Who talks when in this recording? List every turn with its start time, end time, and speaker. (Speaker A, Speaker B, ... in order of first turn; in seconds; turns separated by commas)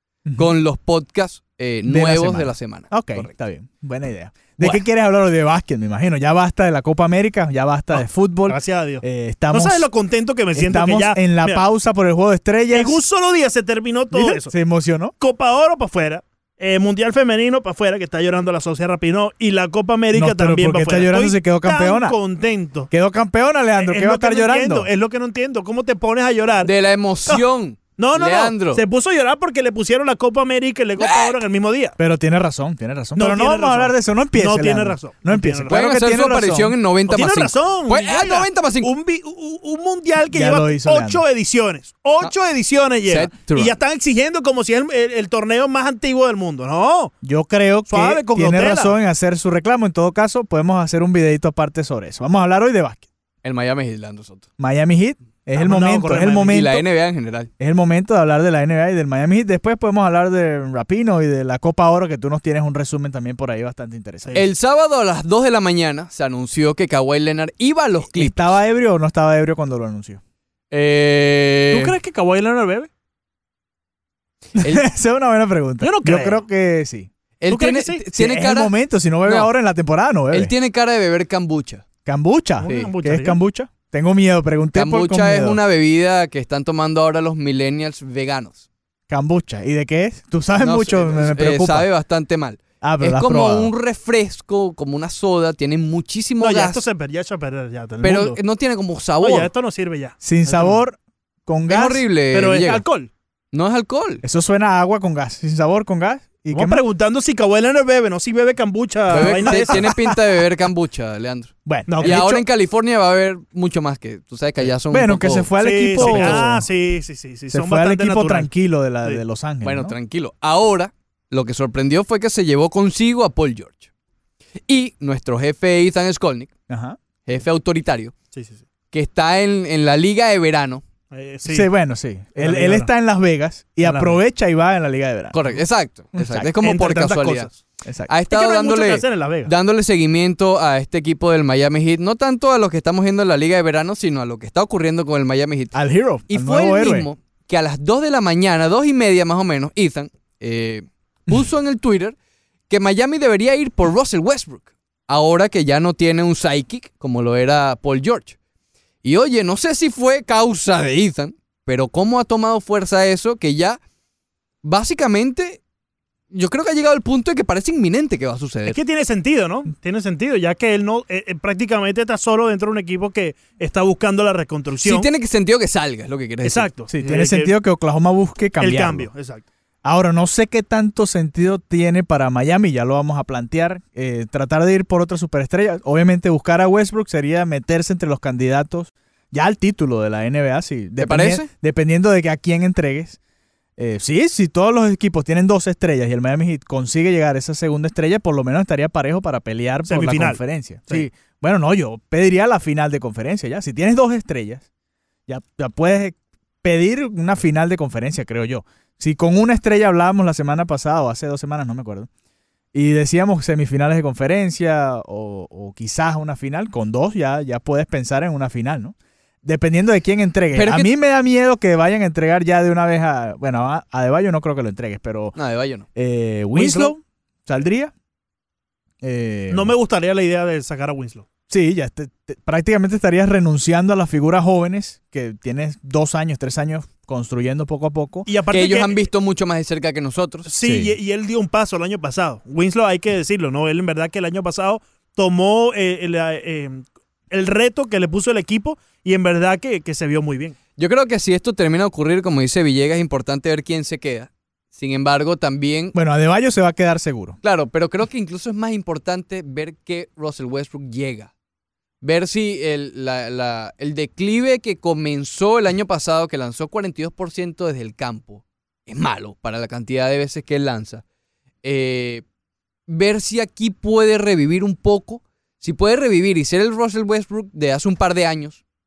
Speaker A: 0.4-3.3, Speaker B: 1.9-9.9, Speaker C: 7.9-11.7, Speaker B: 10.6-13.0, Speaker C: 12.7-14.5, Speaker B: 14.1-15.1, Speaker C: 15.2-22.9, Speaker B: 20.1-22.2, Speaker B: 22.9-24.9, Speaker C: 23.8-26.7, Speaker A: 26.6-28.8, Speaker C: 28.0-32.0, Speaker A: 31.0-31.4, Speaker B: 32.0-36.8, Speaker C: 33.2-35.8, Speaker A: 35.7-38.9, Speaker C: 37.1-47.1, Speaker B: 40.3-41.2, Speaker A: 43.1-43.8, Speaker B: 47.2-53.1, Speaker C: 47.9-49.0, Speaker A: 53.4-54.5, Speaker B: 54.6-56.9, Speaker C: 55.5-56.6, Speaker A: 56.4-57.5, Speaker B: 57.6-64.4, Speaker A: 64.3-68.6, Speaker B: 68.1-70.2, Speaker A: 70.7-72.0, Speaker C: 71.7-72.9, Speaker A: 74.6-74.8, Speaker B: 74.6-77.1, Speaker C: 75.8-76.4, Speaker A: 77.4-78.7, Speaker C: 77.5-78.4, Speaker B: 78.3-80.5, Speaker A: 79.2-79.5, Speaker A: 80.3-81.9, Speaker B: 82.0-85.6, Speaker C: 82.6-83.4, Speaker A: 84.7-88.7, Speaker B: 89.1-91.9, Speaker A: 90.6-96.8, Speaker B: 92.8-93.7, Speaker C: 96.4-98.4, Speaker A: 98.0-99.5, Speaker C: 99.2-100.8, Speaker B: 100.2-102.0, Speaker A: 101.7-102.8, Speaker C: 102.3-103.1, Speaker A: 103.5-104.2, Speaker B: 104.2-106.8, Speaker C: 106.5-109.8, Speaker A: 109.1-116.4, Speaker B: 109.5-110.2, Speaker B: 111.7-112.3, Speaker C: 111.9-112.4, Speaker B: 114.9-116.7, Speaker C: 115.6-118.5, Speaker B: 117.5-120.0, Speaker A: 119.6-123.9, Speaker A: 124.7-126.5, Speaker B: 126.7-127.0, Speaker A: 127.2-128.1, Speaker C: 128.3-128.6, Speaker A: 128.9-130.8, Speaker C: 131.1-131.7, Speaker B: 131.5-135.4, Speaker C: 132.4-132.9, Speaker C: 133.8-134.2, Speaker A: 135.3-137.5, Speaker B: 136.2-136.6, Speaker C: 136.6-137.6, Speaker B: 137.8-138.1, Speaker A: 138.1-145.8, Speaker C: 138.3-139.5, Speaker B: 145.7-147.1, Speaker A: 146.3-152.2, Speaker A: 152.7-158.4, Speaker A: 159.0-163.8, Speaker A: 164.6-165.6, Speaker A: 166.3-168.8, Speaker C: 168.7-175.1, Speaker A: 174.8-176.7, Speaker C: 176.4-177.5, Speaker B: 176.9-179.1, Speaker C: 178.6-179.4, Speaker B: 179.8-193.2, Speaker A: 191.0-191.5, Speaker B: 193.8-204.7, Speaker C: 199.9-201.1, Speaker B: 205.3-212.1, Speaker B: 212.7-225.3, Speaker A: 220.5-220.9, Speaker A: 225.4-225.8, Speaker B: 225.9-227.9, Speaker C: 226.5-226.9, Speaker B: 229.0-229.7, Speaker C: 229.5-231.3, Speaker B: 231.5-238.3, Speaker C: 238.3-239.0, Speaker A: 238.5-240.5, Speaker C: 240.4-250.6, Speaker B: 240.6-241.0, Speaker A: 250.8-256.0, Speaker B: 255.9-257.4, Speaker A: 257.4-261.3, Speaker A: 262.0-271.0, Speaker A: 271.6-272.2, Speaker A: 272.9-278.6